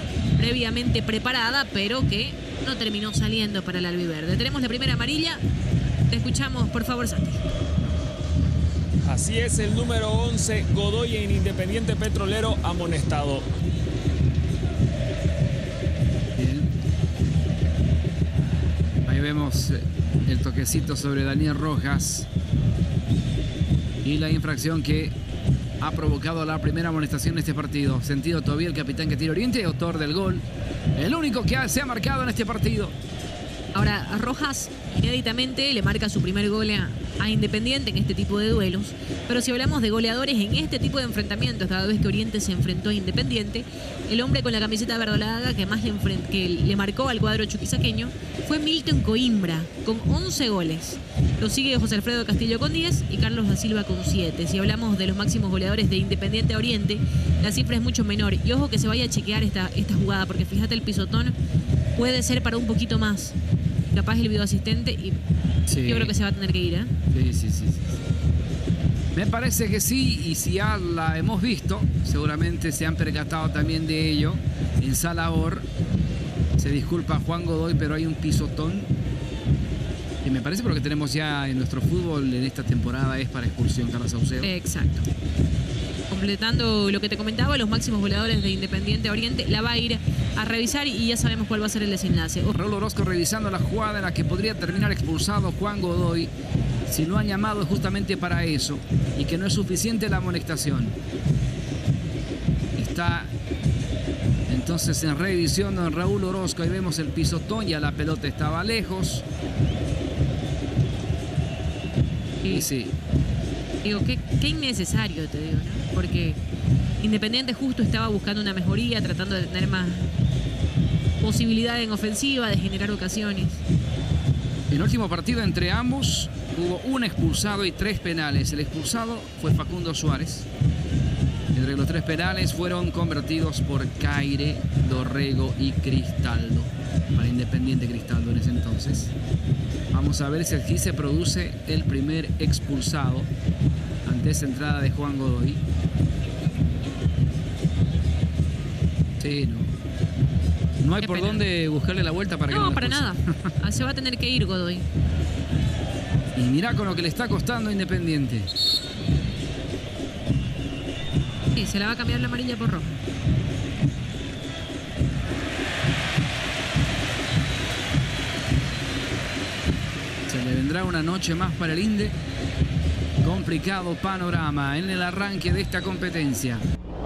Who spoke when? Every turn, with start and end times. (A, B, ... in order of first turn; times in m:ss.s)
0:00.4-0:05.4 A
0:06.1-0:07.4 A
0:09.0-0:13.5 B
0:16.4-0:16.7 C
0:19.1-0:22.3 C
0:24.0-0:25.1 C
0:25.8-0:30.4 C
0:31.0-0:32.9 C
0:33.7-1:01.4 A
1:02.0-1:03.4 A
1:03.9-1:05.2 A
1:05.7-1:06.1 C
1:05.8-1:06.9 A
1:07.1-1:08.0 C
1:09.1-1:15.7 C
1:16.6-1:18.9 C
1:20.2-1:24.5 C
1:24.4-1:25.1 A
1:26.1-1:32.6 A
1:32.5-1:36.3 C
1:36.9-1:41.0 C
1:42.8-1:43.3 C
1:44.5-1:49.2 C
1:52.4-1:52.7 A
1:52.5-1:53.0 C
1:53.8-1:56.4 A
1:57.0-2:00.1 A
2:01.2-2:03.6 A
2:04.7-2:10.5 C
2:11.5-2:19.1 C
2:19.9-2:23.3 C
2:24.0-2:25.6 C
2:29.2-2:29.7 C
2:30.8-2:33.3 C
2:31.0-2:31.4 A
2:32.5-2:34.8 A
2:36.4-2:38.5 C
2:41.5-2:43.0 A
2:50.3-2:52.2 C
2:53.2-2:56.6 C